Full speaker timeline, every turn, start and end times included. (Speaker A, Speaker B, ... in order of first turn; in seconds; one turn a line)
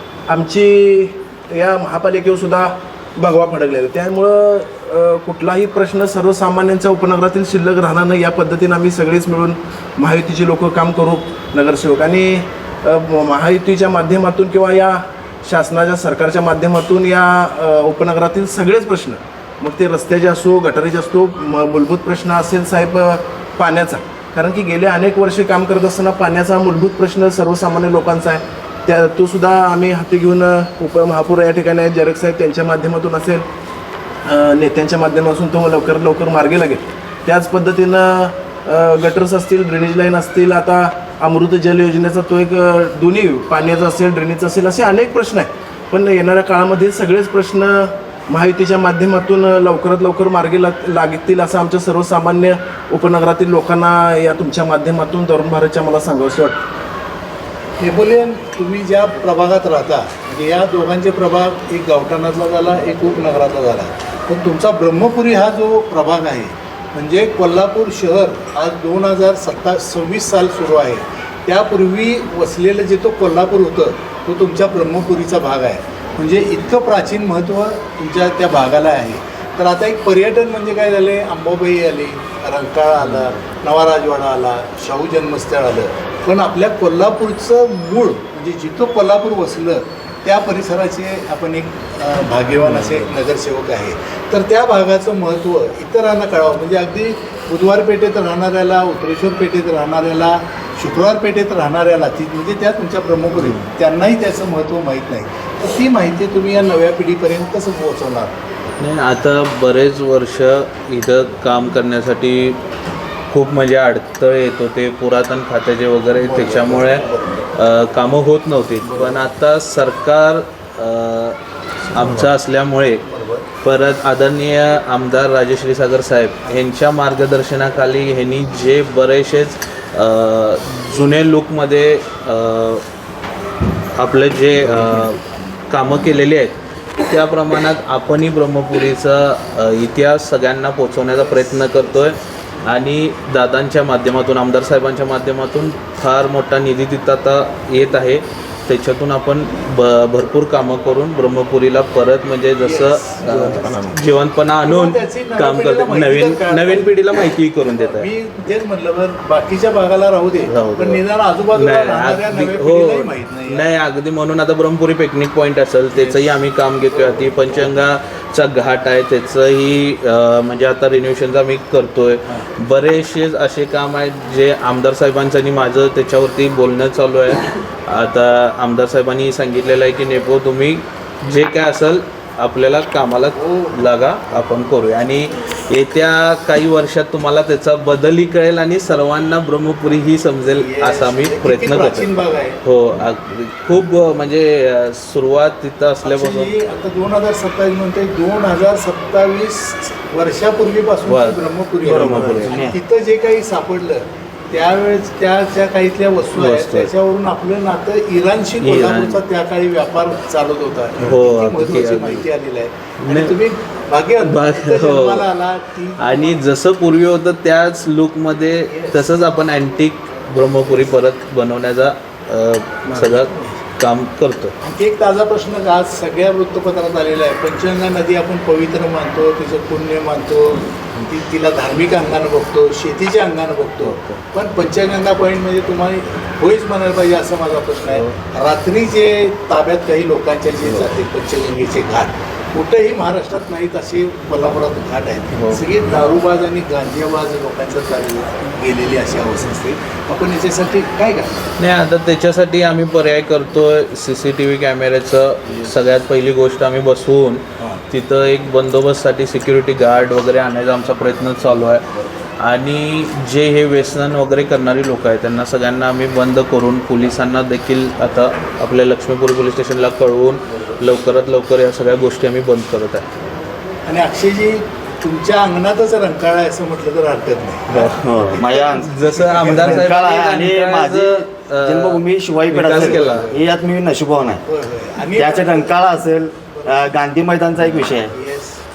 Speaker A: 0.3-33.4
Speaker A: 34.2-56.6
Speaker B: 57.8-108.4
Speaker C: 108.8-112.6
Speaker C: 113.3-121.4
Speaker B: 116.2-117.5
Speaker B: 118.8-119.2
Speaker C: 121.9-123.0
Speaker B: 122.0-122.3
Speaker B: 123.1-123.5
Speaker C: 123.6-132.8
Speaker C: 134.0-158.1
Speaker B: 152.6-153.1
Speaker A: 153.2-154.0
Speaker B: 154.6-163.6
Speaker C: 160.5-192.1
Speaker B: 165.9-166.3
Speaker B: 183.3-183.8
Speaker B: 190.5-192.6
Speaker C: 192.6-196.5
Speaker B: 196.0-216.4
Speaker C: 201.1-202.6
Speaker D: 201.8-202.8
Speaker C: 206.3-206.9
Speaker C: 208.6-209.2
Speaker C: 211.0-212.3
Speaker C: 213.0-213.4
Speaker C: 214.2-215.3
Speaker C: 216.0-224.5
Speaker B: 222.9-223.5
Speaker B: 224.6-251.5
Speaker C: 233.8-234.2
Speaker C: 237.9-238.1
Speaker C: 245.3-245.7
Speaker C: 251.6-261.8
Speaker C: 262.4-273.1
Speaker B: 273.9-279.9
Speaker D: 277.7-278.9
Speaker C: 278.8-283.3
Speaker D: 279.5-284.4
Speaker B: 282.6-283.4
Speaker B: 284.5-285.8
Speaker D: 285.1-288.1
Speaker B: 286.5-286.9
Speaker B: 288.1-288.6